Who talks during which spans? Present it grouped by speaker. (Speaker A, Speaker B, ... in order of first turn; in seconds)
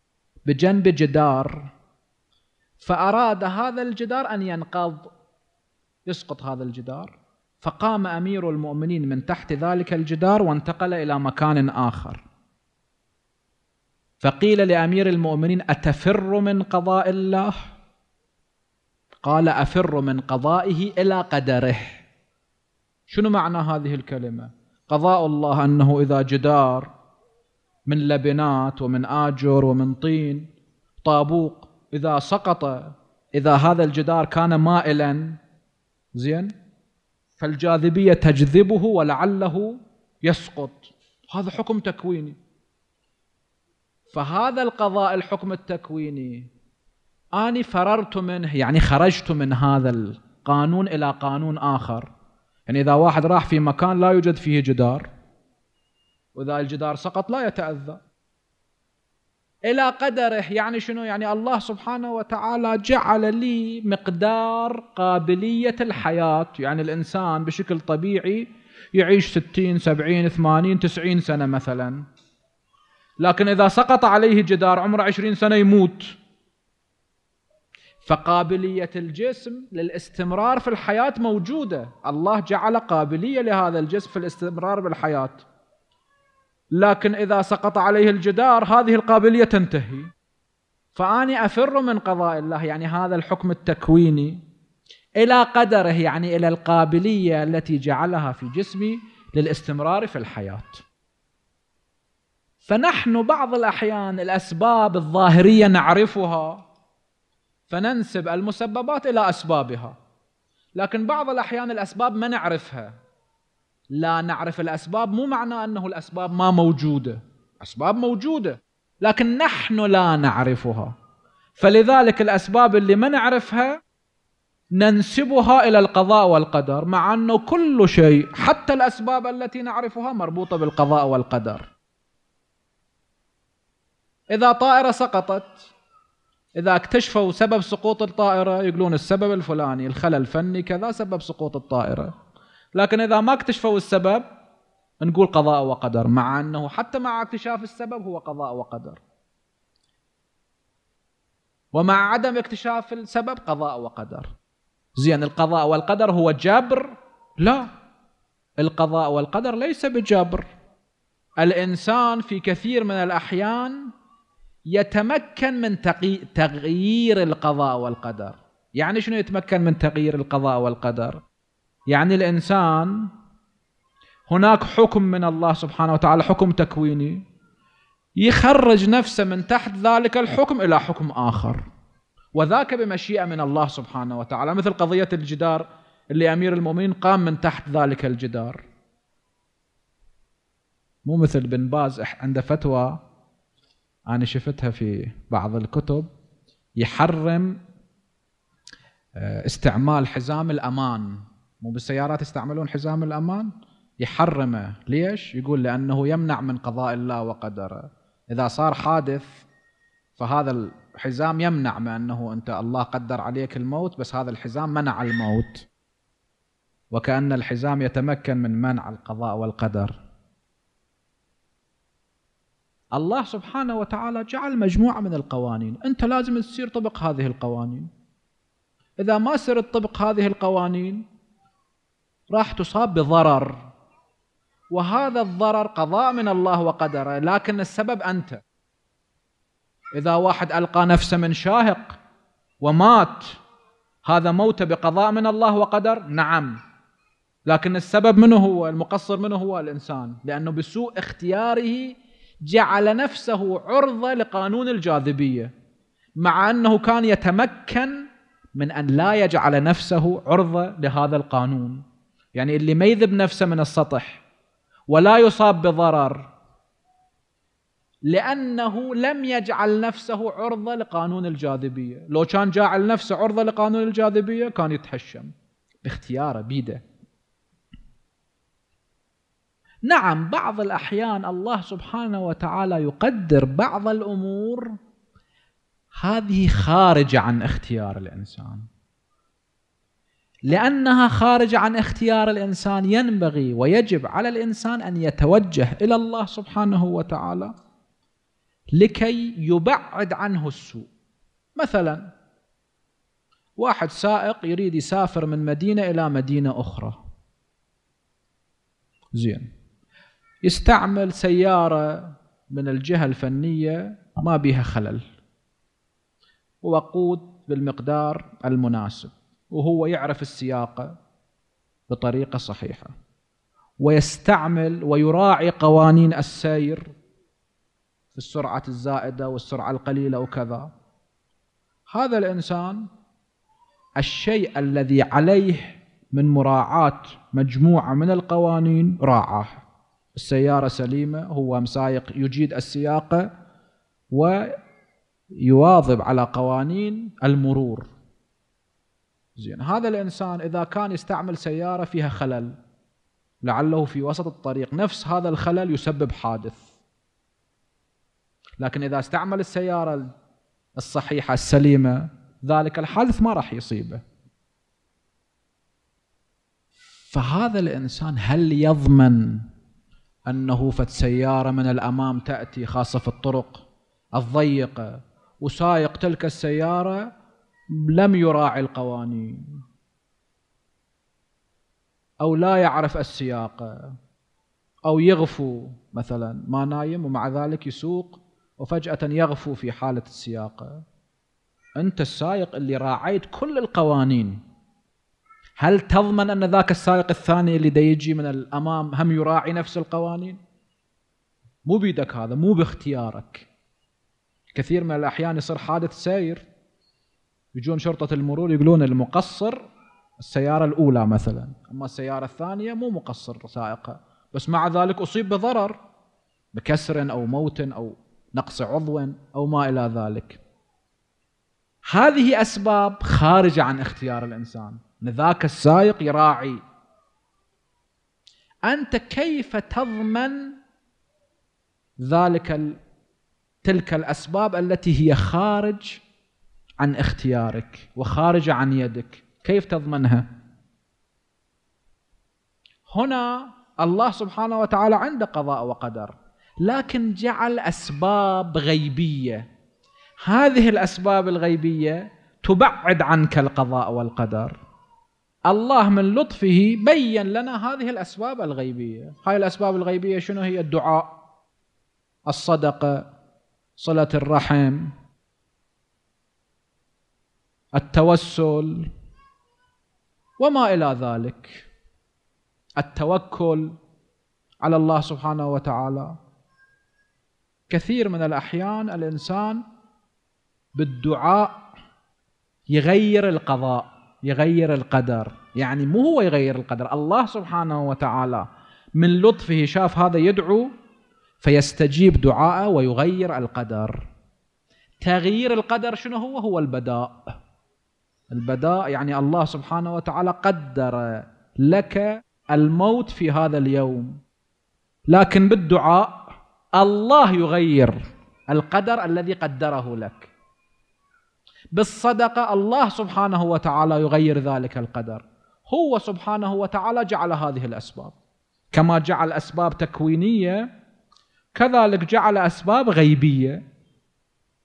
Speaker A: 0.5-1.7, 2.8-5.1, 6.1-12.2, 14.2-17.5, 19.2-22.1, 23.1-26.9, 27.9-30.5, 31.0-35.4, 36.1-36.5, 37.4-42.4, 44.1-46.5, 47.4-52.1, 52.7-55.1, 56.4-58.0, 59.7-72.0, 73.2-76.1, 78.0-85.4, 86.7-90.1, 91.0-94.4, 95.2-100.8, 102.6-106.6, 107.7-110.0, 110.8-112.9, 113.9-120.9, 121.6-123.8, 124.8-131.7, 134.3-135.6, 136.6-142.1, 142.8-144.2, 145.0-149.0, 151.7-154.3, 155.0-157.7, 158.6-160.4, 161.4-163.8, 164.7-171.2, 171.9-173.1, 174.3-177.2, 178.2-181.6, 182.3-188.6, 191.1-193.0, 194.1-196.1, 196.8-197.6, 199.2-209.4, 210.2-215.7, 216.9-219.9, 222.9-227.9, 229.0-231.1, 232.3-233.6, 234.7-238.4, 240.0-242.0, 242.6-243.3, 244.0-246.6, 247.5-255.5, 256.2-257.9, 258.6-261.8, 262.4-264.2, 264.9-266.3, 268.1-275.3, 275.9-276.8, 279.9-284.7, 286.0-288.7, 290.5-297.5, 298.8-300.9, 301.6-302.0, 303.6-307.0, 309.1-309.5, 310.4-315.0, 316.6-320.9, 321.9-322.9, 323.8-326.9, 328.1-330.7, 331.9-332.9, 334.0-339.6, 340.1-343.3, 344.1-344.5, 345.4-347.9, 349.4-352.6, 353.4-356.7, 358.6-360.1, 360.8-364.0, 367.1-369.4, 370.3-377.0, 377.8-379.6, 382.2-383.9, 384.9-390.8, 391.8-394.4, 395.6-400.4, 401.6-403.5, 404.6-406.4, 407.6-409.6, 410.2-415.8, 416.5-420.4, 421.9-426.6, 428.6-430.6, 432.0-432.8, 433.6-436.0, 436.8-440.2, 442.9-449.4, 450.2-454.6, 455.5-461.1, 462.3-463.0, 463.8-464.9, 467.8-468.9, 470.4-471.6, 472.8-473.7, 474.6-476.1, 477.7-479.6, 480.8-481.6, 482.7-488.5, 489.0-490.7, 491.4-494.0, 495.0-497.3, 498.3-504.2, 505.1-508.0, 508.5-510.3, 511.8-518.1, 518.7-520.6, 521.5-523.6